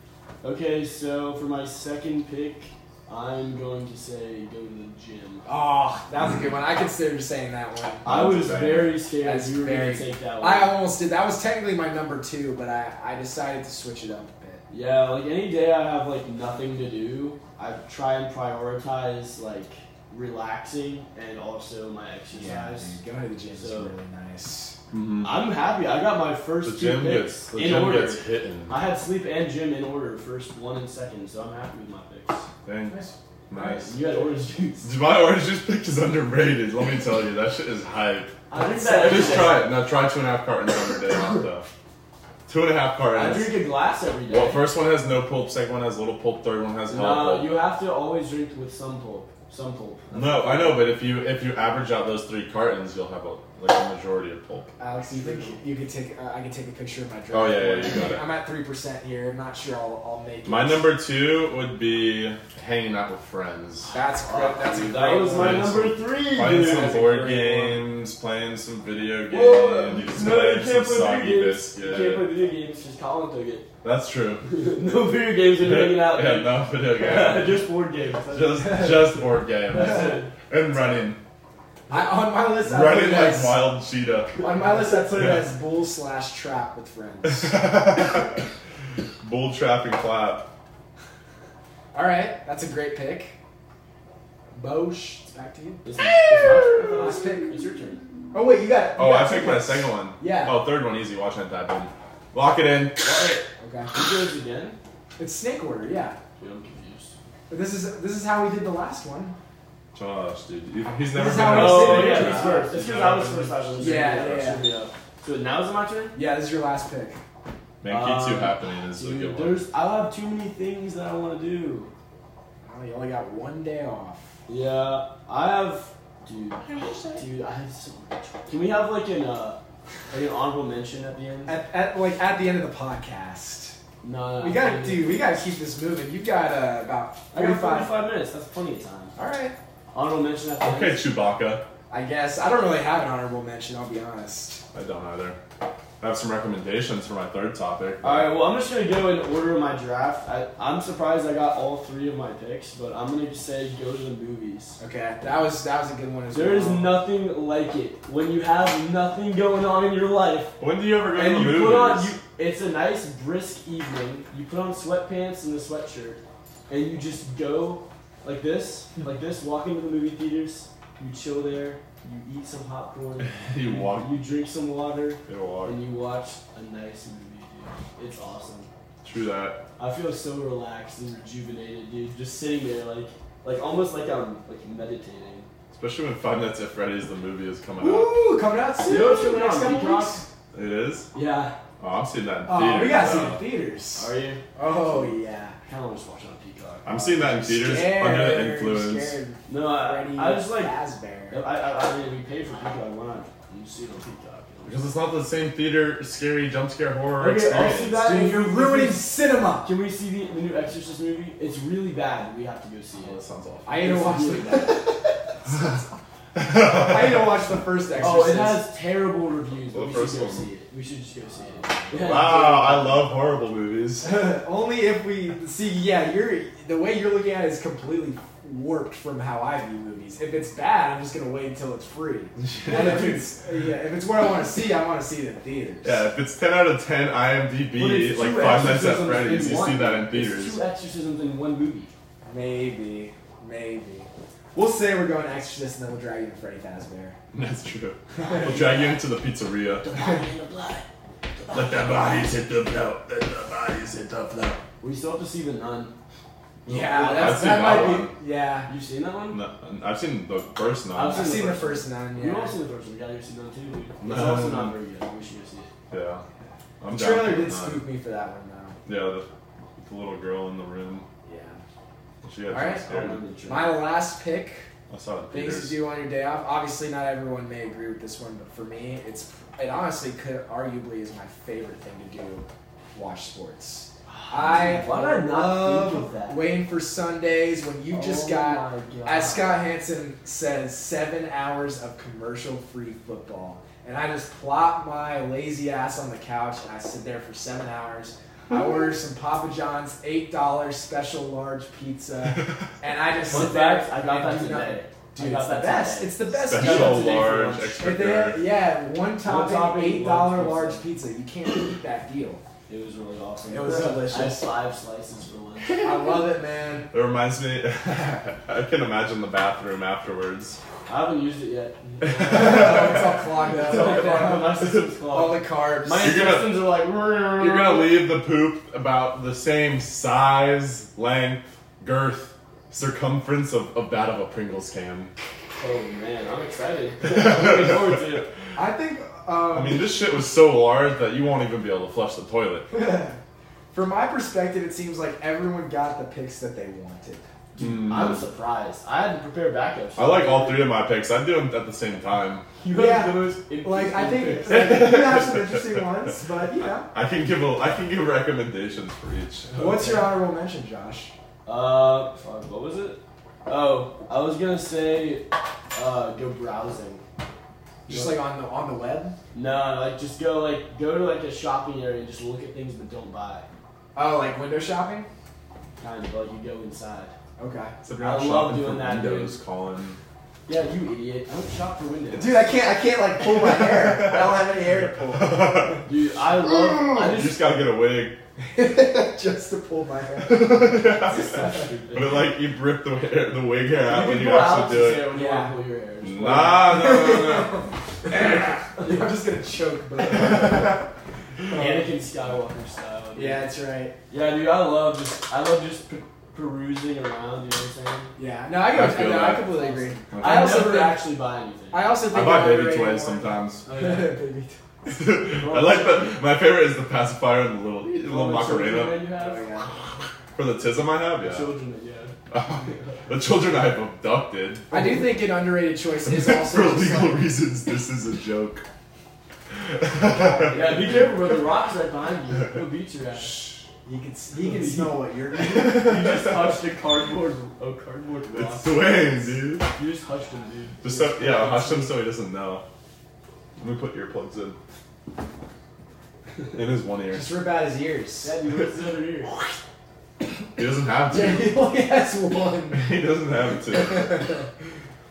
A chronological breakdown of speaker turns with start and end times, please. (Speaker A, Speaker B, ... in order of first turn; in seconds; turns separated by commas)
Speaker A: 0.4-5.5, Speaker B: 5.5-8.1, Speaker C: 8.0-9.0, Speaker A: 8.0-10.8, Speaker B: 9.2-14.6, Speaker A: 14.7-23.0, Speaker B: 22.3-24.8, Speaker A: 23.5-23.9, Speaker C: 24.9-25.3, Speaker A: 25.2-32.5, Speaker C: 26.6-28.8, Speaker C: 32.6-33.9, Speaker A: 33.6-34.9, Speaker C: 34.8-38.4, Speaker A: 38.5-39.7, Speaker B: 38.6-39.6, Speaker C: 39.0-41.7, Speaker C: 42.5-43.6, Speaker A: 43.1-44.7, Speaker C: 44.3-47.5, Speaker A: 46.9-50.9, Speaker C: 50.1-54.7, Speaker B: 54.8-60.9, Speaker A: 55.1-55.6, Speaker C: 57.3-58.2, Speaker C: 60.5-63.9, Speaker A: 63.9-67.9, Speaker B: 63.9-65.8, Speaker C: 65.3-72.3, Speaker B: 66.5-67.0, Speaker A: 69.3-73.7, Speaker C: 73.8-74.5, Speaker A: 74.5-80.3, Speaker C: 75.6-77.6, Speaker C: 78.3-81.2, Speaker B: 81.9-83.7, Speaker C: 82.6-84.4, Speaker B: 84.4-87.8, Speaker C: 85.1-85.5, Speaker C: 87.2-88.4, Speaker C: 89.2-90.5, Speaker B: 91.9-93.4, Speaker B: 94.5-95.8, Speaker A: 95.8-98.0, Speaker C: 96.3-96.6, Speaker B: 96.8-97.6, Speaker B: 98.3-100.6, Speaker C: 99.0-103.1, Speaker A: 103.0-104.8, Speaker B: 103.6-103.9, Speaker B: 105.2-106.2, Speaker A: 106.4-107.1, Speaker B: 107.5-109.4, Speaker C: 109.9-114.5, Speaker B: 111.1-112.7, Speaker A: 111.3-116.2, Speaker B: 113.8-114.7, Speaker B: 116.1-117.2, Speaker C: 117.8-119.6, Speaker A: 117.9-121.9, Speaker B: 122.6-124.3, Speaker A: 124.5-131.6, Speaker B: 126.6-127.2, Speaker B: 131.5-133.8, Speaker A: 134.0-135.2, Speaker B: 134.4-137.9, Speaker A: 137.3-139.1, Speaker B: 139.2-139.6, Speaker A: 139.9-141.0, Speaker C: 140.6-141.7, Speaker B: 141.9-144.6, Speaker C: 144.7-145.4, Speaker C: 146.0-148.3, Speaker A: 148.0-154.8, Speaker B: 154.8-157.0, Speaker A: 156.3-160.6, Speaker C: 160.6-162.1, Speaker A: 161.1-178.7, Speaker C: 173.2-174.1, Speaker C: 175.3-175.8, Speaker C: 179.0-179.6, Speaker A: 179.8-185.5, Speaker C: 185.7-188.1, Speaker B: 187.8-190.3, Speaker A: 188.8-190.2, Speaker C: 190.5-191.1, Speaker A: 191.1-191.6, Speaker C: 191.8-193.4, Speaker B: 192.5-195.6, Speaker A: 193.9-197.6, Speaker C: 196.8-199.2, Speaker B: 197.5-201.4, Speaker A: 199.5-200.8, Speaker A: 201.3-204.8, Speaker C: 204.7-208.0, Speaker A: 207.2-213.2, Speaker B: 207.9-209.7, Speaker C: 213.0-213.7, Speaker B: 213.7-215.8, Speaker A: 213.8-214.8, Speaker C: 216.4-217.4, Speaker B: 216.6-218.7, Speaker A: 218.0-223.1, Speaker C: 219.7-220.5, Speaker B: 221.7-222.2, Speaker C: 221.9-224.1, Speaker B: 224.0-236.0, Speaker A: 232.7-233.3, Speaker C: 235.8-240.6, Speaker A: 237.8-241.9, Speaker B: 242.3-247.2, Speaker C: 247.3-249.9, Speaker B: 248.2-248.5, Speaker A: 248.3-249.0, Speaker A: 249.8-252.3, Speaker C: 251.5-254.6, Speaker A: 254.8-255.9, Speaker C: 256.7-258.1, Speaker B: 256.7-258.7, Speaker A: 256.8-258.0, Speaker A: 258.7-259.4, Speaker C: 259.3-261.4, Speaker A: 260.9-265.7, Speaker B: 261.1-262.6, Speaker C: 264.0-264.7, Speaker C: 265.9-266.2, Speaker C: 266.8-267.9, Speaker B: 266.9-268.8, Speaker C: 268.9-271.1, Speaker B: 271.2-271.6, Speaker C: 272.2-273.2, Speaker B: 272.5-272.9, Speaker A: 272.8-273.9, Speaker B: 273.4-274.7, Speaker C: 274.9-275.8, Speaker B: 275.3-312.4, Speaker A: 284.1-286.4, Speaker A: 287.9-289.6, Speaker A: 303.3-308.0, Speaker C: 306.5-308.5, Speaker A: 309.2-310.9, Speaker A: 312.7-315.9, Speaker B: 313.5-314.5, Speaker B: 315.8-316.9, Speaker C: 316.9-320.6, Speaker A: 320.9-328.0, Speaker C: 322.1-323.0, Speaker B: 322.2-326.4, Speaker C: 326.0-326.7, Speaker C: 327.4-335.1, Speaker A: 335.6-338.3, Speaker C: 337.1-337.8, Speaker B: 338.6-340.0, Speaker C: 339.5-342.7, Speaker B: 342.7-343.2, Speaker B: 343.7-347.3, Speaker A: 347.6-350.7, Speaker C: 347.6-348.2, Speaker C: 350.0-352.5, Speaker A: 352.6-355.0, Speaker B: 352.7-356.9, Speaker C: 354.5-355.8, Speaker C: 356.9-359.5, Speaker A: 359.5-360.2, Speaker B: 359.6-361.1, Speaker A: 361.4-367.0, Speaker B: 367.9-369.2, Speaker A: 367.9-368.2, Speaker A: 369.3-373.5, Speaker B: 373.9-375.1, Speaker A: 375.8-377.1, Speaker B: 377.4-377.8, Speaker C: 377.8-380.0, Speaker A: 378.0-379.4, Speaker A: 380.5-382.4, Speaker B: 382.1-385.8, Speaker C: 383.4-384.5, Speaker C: 385.1-385.8, Speaker A: 385.9-387.4, Speaker C: 386.7-388.2, Speaker B: 388.4-391.0, Speaker C: 390.3-395.1, Speaker A: 391.0-392.3, Speaker A: 393.8-396.8, Speaker B: 395.1-395.6, Speaker C: 396.0-397.7, Speaker B: 396.5-400.9, Speaker A: 398.8-399.1, Speaker B: 401.4-401.9, Speaker A: 401.5-403.5, Speaker B: 403.1-403.9, Speaker A: 404.1-408.1, Speaker B: 408.2-411.1, Speaker C: 408.7-409.5, Speaker A: 409.5-411.9, Speaker C: 410.1-410.8, Speaker B: 411.7-414.6, Speaker C: 412.1-413.6, Speaker A: 413.7-414.2, Speaker C: 414.9-419.1, Speaker A: 415.3-416.1, Speaker A: 418.0-419.5, Speaker B: 419.2-419.7, Speaker C: 420.3-421.5, Speaker A: 421.2-423.0, Speaker C: 422.3-424.7, Speaker B: 424.7-427.3, Speaker C: 426.1-428.6, Speaker C: 429.5-430.9, Speaker B: 430.0-431.0, Speaker A: 430.5-433.5, Speaker B: 433.9-436.2, Speaker A: 434.3-439.1, Speaker C: 436.0-436.3, Speaker C: 438.3-439.7, Speaker A: 439.7-442.0, Speaker C: 440.8-442.6, Speaker C: 443.6-444.6, Speaker C: 446.5-447.3, Speaker B: 447.1-448.4, Speaker A: 448.2-449.4, Speaker C: 450.6-451.6, Speaker B: 451.1-452.9, Speaker C: 452.7-454.4, Speaker B: 453.7-454.5